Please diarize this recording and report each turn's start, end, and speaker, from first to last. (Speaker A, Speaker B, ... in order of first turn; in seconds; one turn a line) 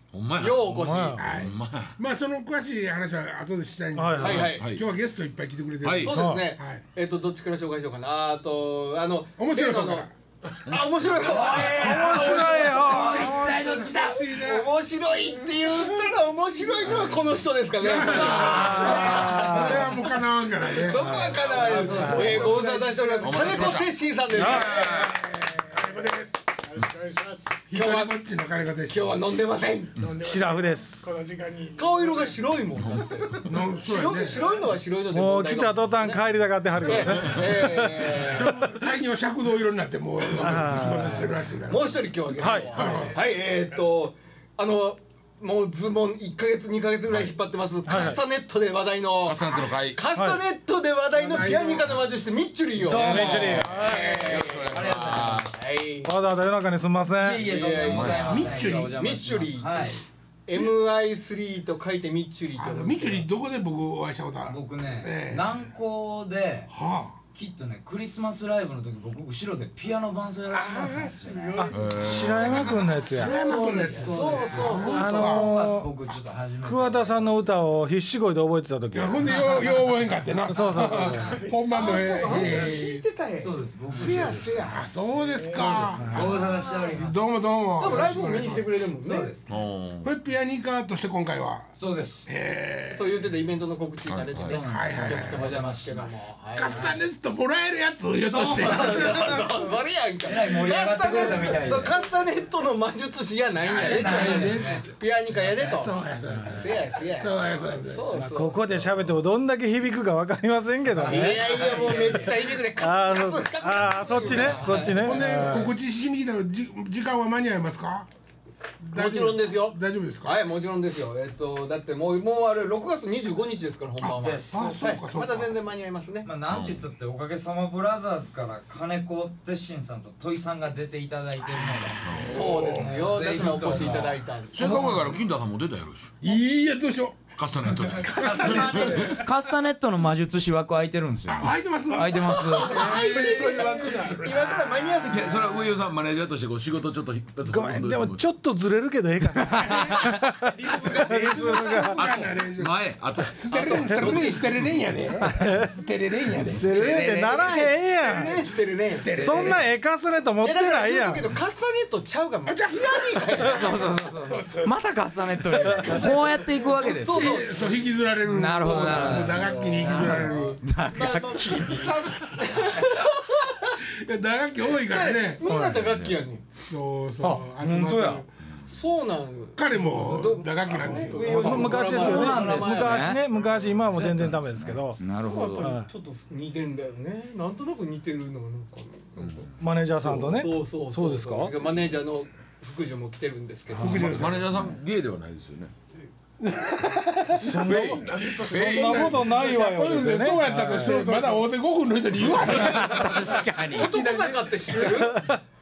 Speaker A: 0.1-2.0
Speaker B: 0.4-1.2
Speaker C: 0.7-1.2
Speaker D: 1.2-6.8
Speaker C: 4.0-4.4
Speaker B: 4.2-4.6
Speaker A: 4.3-4.8
Speaker A: 5.8-6.2
Speaker B: 6.0-10.1
Speaker C: 6.1-6.5
Speaker D: 9.4-10.1
Speaker B: 10.7-20.1
Speaker A: 10.7-11.2
Speaker D: 11.3-14.7
Speaker E: 11.3-14.2
Speaker C: 11.6-13.8
Speaker D: 16.8-17.1
Speaker D: 17.8-23.8
Speaker E: 18.1-19.7
Speaker C: 18.5-19.8
Speaker B: 20.7-25.1
Speaker C: 21.0-21.4
Speaker E: 21.4-22.6
Speaker F: 21.8-23.1
Speaker C: 21.9-22.3
Speaker A: 23.2-24.0
Speaker C: 24.3-24.8
Speaker D: 24.4-25.7
Speaker F: 24.5-27.6
Speaker D: 27.7-29.2
Speaker B: 27.7-28.2
Speaker B: 28.9-29.9
Speaker F: 30.0-33.0
Speaker C: 30.2-31.1
Speaker B: 31.8-36.2
Speaker A: 32.7-33.2
Speaker D: 33.4-34.6
Speaker C: 35.1-38.2
Speaker F: 36.8-37.3
Speaker B: 36.8-38.5
Speaker D: 38.1-42.1
Speaker C: 40.4-41.1
Speaker B: 40.8-56.1
Speaker C: 42.4-42.8
Speaker D: 42.7-43.2
Speaker C: 47.9-48.2
Speaker A: 49.2-50.0
Speaker C: 50.1-50.4
Speaker D: 51.1-52.1
Speaker E: 52.8-55.6
Speaker C: 52.9-54.2
Speaker A: 53.0-55.7
Speaker D: 53.7-54.5
Speaker C: 56.0-57.5
Speaker E: 57.2-60.0
Speaker B: 57.4-63.3
Speaker A: 57.8-58.4
Speaker D: 58.2-59.1
Speaker D: 62.6-65.6
Speaker E: 64.5-66.7
Speaker D: 66.7-67.2
Speaker E: 67.3-71.8
Speaker D: 70.5-71.1
Speaker F: 70.9-72.8
Speaker C: 71.6-73.3
Speaker A: 71.7-72.8
Speaker D: 72.2-75.6
Speaker E: 73.1-77.5
Speaker B: 73.9-75.4
Speaker C: 75.0-75.9
Speaker C: 76.6-79.5
Speaker D: 78.9-83.0
Speaker C: 80.5-81.4
Speaker B: 81.7-84.9
Speaker E: 82.3-82.7
Speaker E: 83.4-84.8
Speaker D: 84.1-88.7
Speaker F: 85.3-85.8
Speaker E: 85.5-87.2
Speaker B: 85.6-87.0
Speaker C: 86.0-86.4
Speaker B: 87.8-89.3
Speaker E: 89.0-89.5
Speaker A: 89.5-90.1
Speaker D: 90.0-91.8
Speaker E: 91.8-92.3
Speaker D: 92.2-93.2
Speaker B: 92.9-97.0
Speaker A: 94.1-94.6
Speaker E: 94.4-97.0
Speaker D: 94.5-95.6
Speaker D: 96.5-99.5
Speaker E: 98.2-99.4
Speaker B: 98.5-108.7
Speaker E: 100.2-102.0
Speaker E: 103.6-104.9
Speaker D: 103.7-108.1
Speaker C: 108.1-115.7
Speaker B: 111.0-115.2
Speaker E: 111.0-112.2
Speaker D: 114.9-118.1
Speaker D: 118.8-120.3
Speaker B: 118.9-126.3
Speaker D: 124.0-125.5
Speaker E: 124.2-124.6
Speaker E: 126.2-134.2
Speaker A: 126.5-126.8
Speaker A: 132.0-132.6
Speaker D: 132.1-133.1
Speaker B: 132.2-135.2
Speaker A: 134.5-136.1
Speaker D: 134.6-134.9
Speaker D: 136.2-137.2
Speaker A: 137.4-139.2
Speaker E: 138.1-142.9
Speaker D: 138.1-139.2
Speaker B: 138.3-139.2
Speaker D: 141.3-144.2
Speaker B: 142.5-145.8
Speaker F: 142.7-144.6
Speaker A: 145.1-148.2
Speaker C: 147.5-152.1
Speaker E: 149.6-149.9
Speaker D: 149.7-149.9
Speaker B: 150.5-152.3
Speaker F: 150.9-151.8
Speaker D: 151.2-157.2
Speaker A: 152.0-153.4
Speaker B: 153.5-154.8
Speaker C: 155.2-155.8
Speaker C: 156.4-158.4
Speaker B: 156.6-159.6
Speaker A: 156.7-157.4
Speaker D: 158.9-159.7
Speaker C: 159.1-161.2
Speaker B: 160.4-163.9
Speaker D: 162.4-163.9
Speaker E: 163.4-167.4
Speaker F: 164.2-164.8
Speaker B: 165.7-167.8
Speaker D: 166.8-170.6
Speaker E: 168.2-172.1
Speaker B: 168.7-170.2
Speaker B: 170.9-173.8
Speaker D: 174.0-175.5
Speaker B: 174.8-176.4
Speaker C: 175.4-175.8
Speaker A: 175.8-176.2
Speaker D: 176.6-178.3
Speaker E: 177.2-178.2
Speaker B: 178.7-183.1
Speaker D: 179.6-181.8
Speaker F: 180.7-181.9
Speaker C: 181.3-185.0
Speaker E: 181.4-183.2
Speaker E: 183.9-185.8
Speaker A: 184.0-184.4
Speaker B: 185.2-194.4
Speaker C: 185.6-185.9
Speaker A: 189.2-189.5
Speaker C: 189.6-191.5
Speaker D: 193.8-194.6
Speaker A: 193.9-195.7
Speaker D: 196.4-197.7
Speaker C: 197.4-201.1
Speaker F: 197.4-199.4
Speaker A: 197.4-199.1
Speaker D: 198.5-203.4
Speaker F: 200.5-201.5
Speaker E: 202.5-203.9
Speaker B: 203.7-205.3
Speaker F: 203.7-205.1
Speaker C: 204.9-205.4